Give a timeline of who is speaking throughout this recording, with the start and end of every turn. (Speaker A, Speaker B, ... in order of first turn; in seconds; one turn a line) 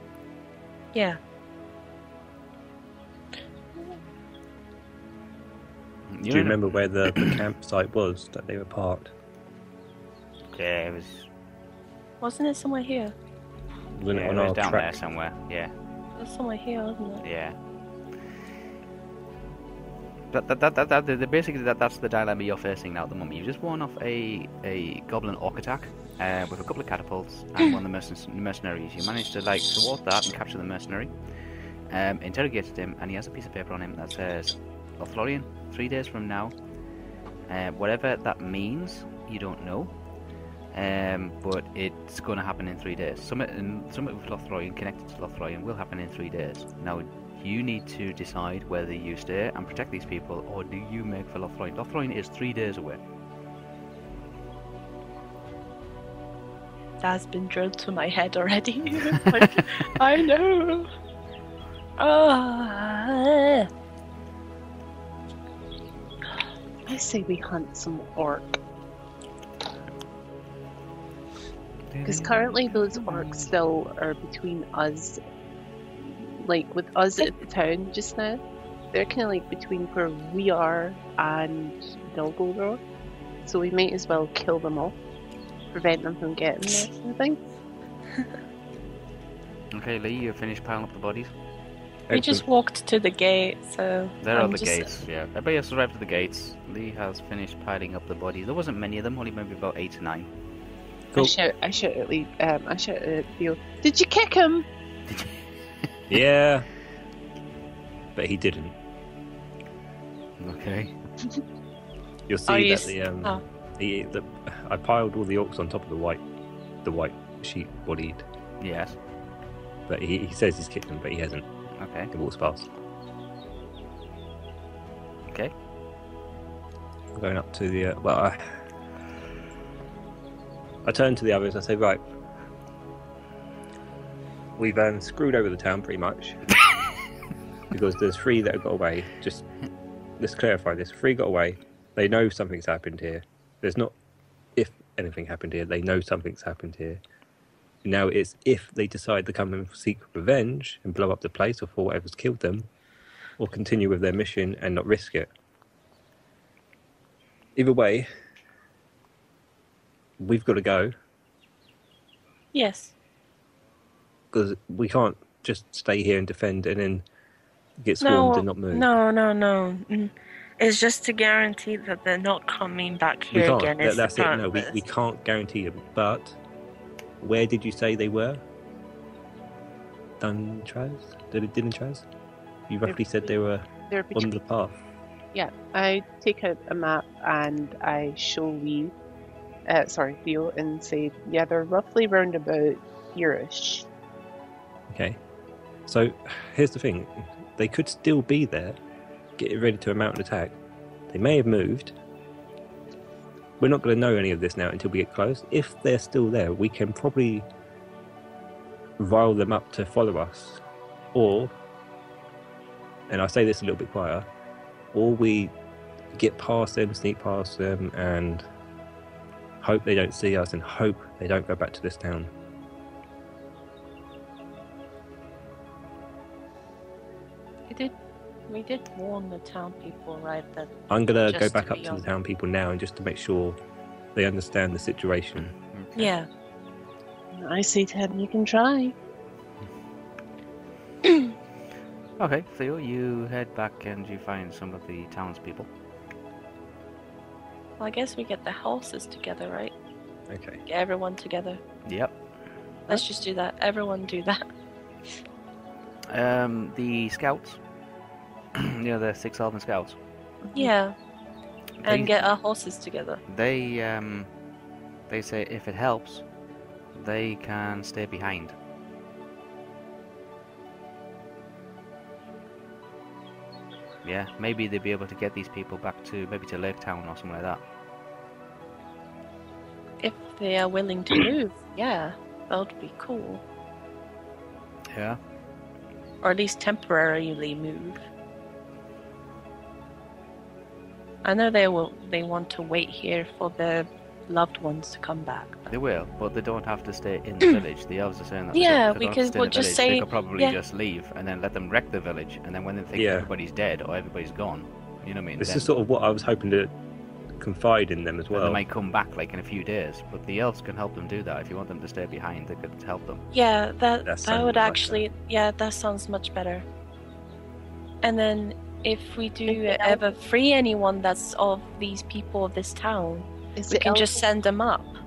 Speaker A: 0.9-1.2
Speaker B: 6.1-6.6
Speaker C: 6.3-9.1
Speaker B: 10.5-11.3
Speaker A: 12.2-13.1
Speaker C: 13.9-15.0
Speaker B: 14.1-15.7
Speaker A: 16.2-17.2
Speaker B: 17.2-17.6
Speaker B: 20.3-31.1
Speaker B: 31.9-36.5
Speaker B: 37.5-39.9
Speaker B: 40.7-53.0
Speaker A: 57.0-60.9
Speaker A: 62.0-63.7
Speaker D: 66.9-68.6
Speaker B: 71.9-73.5
Speaker D: 72.0-75.2
Speaker D: 76.0-78.4
Speaker D: 78.9-82.8
Speaker D: 83.4-85.0
Speaker D: 85.7-87.4
Speaker B: 89.7-91.3
Speaker C: 92.1-92.4
Speaker A: 92.1-95.0
Speaker B: 94.2-100.3
Speaker D: 101.2-104.7
Speaker C: 106.1-106.7
Speaker C: 108.1-108.8
Speaker B: 110.4-110.9
Speaker C: 112.3-116.2
Speaker A: 112.5-113.4
Speaker C: 116.8-118.2
Speaker B: 118.6-119.0
Speaker C: 119.9-121.5
Speaker B: 121.8-122.1
Speaker C: 122.1-122.7
Speaker B: 125.3-125.5
Speaker C: 127.1-128.6
Speaker C: 130.8-132.0
Speaker C: 134.6-136.4
Speaker C: 137.7-139.5
Speaker C: 140.2-143.9
Speaker C: 144.6-147.0
Speaker C: 147.8-152.7
Speaker C: 153.4-155.3
Speaker C: 157.6-158.1
Speaker C: 160.2-160.9
Speaker A: 162.5-162.9
Speaker C: 164.3-167.0
Speaker C: 167.8-168.9
Speaker A: 168.0-174.8
Speaker C: 173.3-176.4
Speaker C: 177.2-178.4
Speaker C: 180.2-182.0
Speaker C: 182.7-184.8
Speaker D: 182.9-183.3
Speaker D: 183.9-184.3
Speaker D: 185.3-188.9
Speaker D: 189.7-193.9
Speaker C: 194.9-195.2
Speaker C: 195.9-198.8
Speaker C: 199.4-200.6
Speaker C: 201.1-201.9
Speaker C: 203.6-207.4
Speaker C: 209.0-210.6
Speaker C: 211.1-211.5
Speaker C: 213.1-214.2
Speaker C: 214.9-215.5
Speaker C: 216.1-218.4
Speaker C: 219.6-222.3
Speaker A: 228.5-232.0
Speaker C: 230.9-233.6
Speaker C: 234.1-235.5
Speaker B: 235.4-236.1
Speaker A: 235.9-236.3
Speaker D: 237.3-238.9
Speaker B: 242.2-245.7
Speaker A: 247.8-249.7
Speaker C: 250.3-250.6
Speaker A: 250.7-251.6
Speaker B: 251.9-252.1
Speaker A: 252.9-254.4
Speaker B: 256.1-257.6
Speaker B: 258.5-260.0
Speaker A: 260.5-260.9
Speaker B: 261.8-262.2
Speaker A: 261.8-263.2
Speaker B: 263.3-264.3
Speaker B: 265.1-266.2
Speaker B: 266.9-268.6
Speaker B: 274.0-277.6
Speaker A: 280.0-283.4
Speaker B: 284.9-285.2
Speaker A: 286.2-288.0
Speaker A: 291.2-295.7
Speaker B: 295.7-305.7
Speaker A: 298.5-300.6
Speaker C: 302.9-303.3
Speaker C: 305.4-306.7
Speaker C: 307.4-308.6
Speaker B: 308.3-313.2
Speaker A: 313.3-316.6
Speaker C: 314.0-315.0
Speaker A: 318.0-325.0
Speaker D: 319.5-320.0
Speaker D: 323.6-324.2